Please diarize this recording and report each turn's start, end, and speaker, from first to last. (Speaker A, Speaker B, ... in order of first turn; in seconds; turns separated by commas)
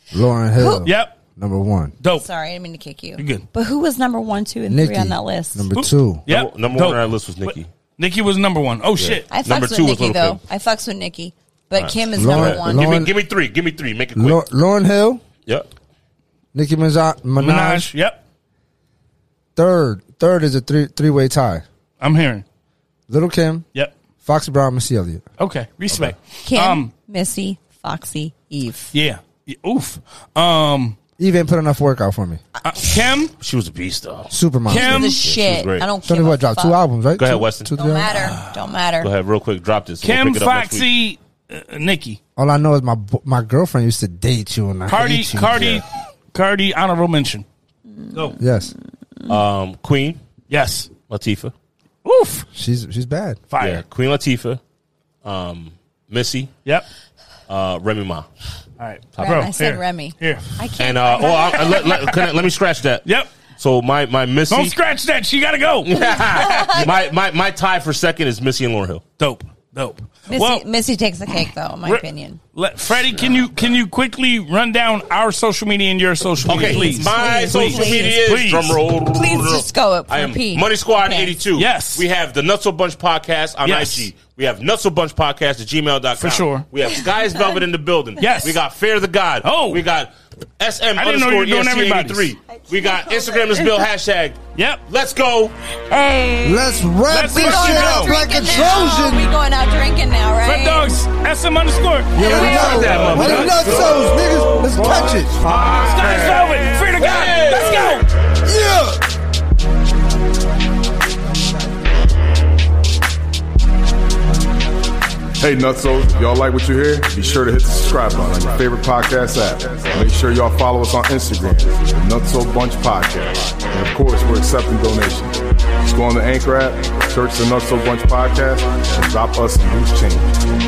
Speaker A: 0.1-1.9, Speaker B: 0.6-0.9, Speaker C: 0.8-1.2, Speaker C: 2.0-2.3, Speaker B: 2.1-5.7, Speaker C: 3.2-3.5, Speaker A: 4.7-6.2, Speaker C: 5.7-9.3, Speaker D: 6.3-7.7, Speaker D: 9.0-10.4, Speaker B: 9.3-13.1, Speaker D: 11.8-14.4, Speaker A: 12.2-13.1, Speaker A: 14.2-15.2, Speaker A: 16.5-17.9, Speaker C: 17.4-18.2, Speaker A: 19.6-21.6, Speaker C: 22.0-22.4, Speaker A: 23.1-23.7, Speaker A: 24.2-25.2, Speaker C: 25.4-26.9, Speaker B: 26.4-28.9, Speaker C: 28.9-31.0, Speaker A: 31.2-32.4, Speaker C: 32.6-33.3, Speaker D: 33.3-34.3, Speaker A: 34.3-35.1, Speaker B: 34.7-36.8, Speaker C: 34.7-35.2, Speaker D: 35.0-35.9, Speaker A: 36.0-38.1, Speaker D: 37.2-37.7, Speaker B: 37.7-39.1, Speaker C: 38.1-38.5, Speaker D: 39.0-40.9, Speaker C: 40.0-42.2, Speaker A: 42.4-45.8, Speaker C: 44.9-47.5, Speaker B: 48.0-48.5, Speaker C: 48.1-48.4, Speaker A: 48.4-48.7, Speaker D: 49.3-50.2, Speaker C: 50.5-50.9, Speaker D: 51.1-51.5, Speaker C: 52.0-52.5, Speaker A: 52.5-53.4, Speaker C: 53.5-53.8, Speaker D: 53.6-54.6, Speaker D: 55.2-56.5, Speaker D: 57.5-58.3, Speaker C: 58.8-60.5, Speaker D: 59.1-59.5, Speaker B: 59.2-62.1, Speaker D: 60.8-64.7, Speaker C: 61.7-62.1, Speaker C: 63.0-63.3, Speaker C: 64.5-65.9, Speaker D: 65.8-69.0, Speaker B: 66.0-67.1, Speaker C: 69.2-70.7, Speaker B: 70.3-72.4, Speaker C: 71.8-78.8, Speaker D: 73.0-73.7, Speaker D: 76.5-95.5, Speaker B: 76.6-78.2, Speaker B: 79.0-81.3, Speaker C: 81.5-82.0, Speaker C: 83.7-84.1, Speaker C: 86.2-86.7, Speaker C: 88.2-88.6, Speaker C: 89.4-89.8, Speaker C: 91.0-92.3, Speaker B: 92.5-93.8, Speaker C: 94.5-94.8, Speaker B: 95.9-100.9, Speaker A: 96.4-99.3, Speaker C: 97.1-98.2, Speaker C: 100.4-108.1, Speaker A: 102.2-105.4, Speaker B: 102.2-103.6, Speaker D: 102.2-108.0, Speaker A: 108.5-109.0, Speaker E: 115.4-130.4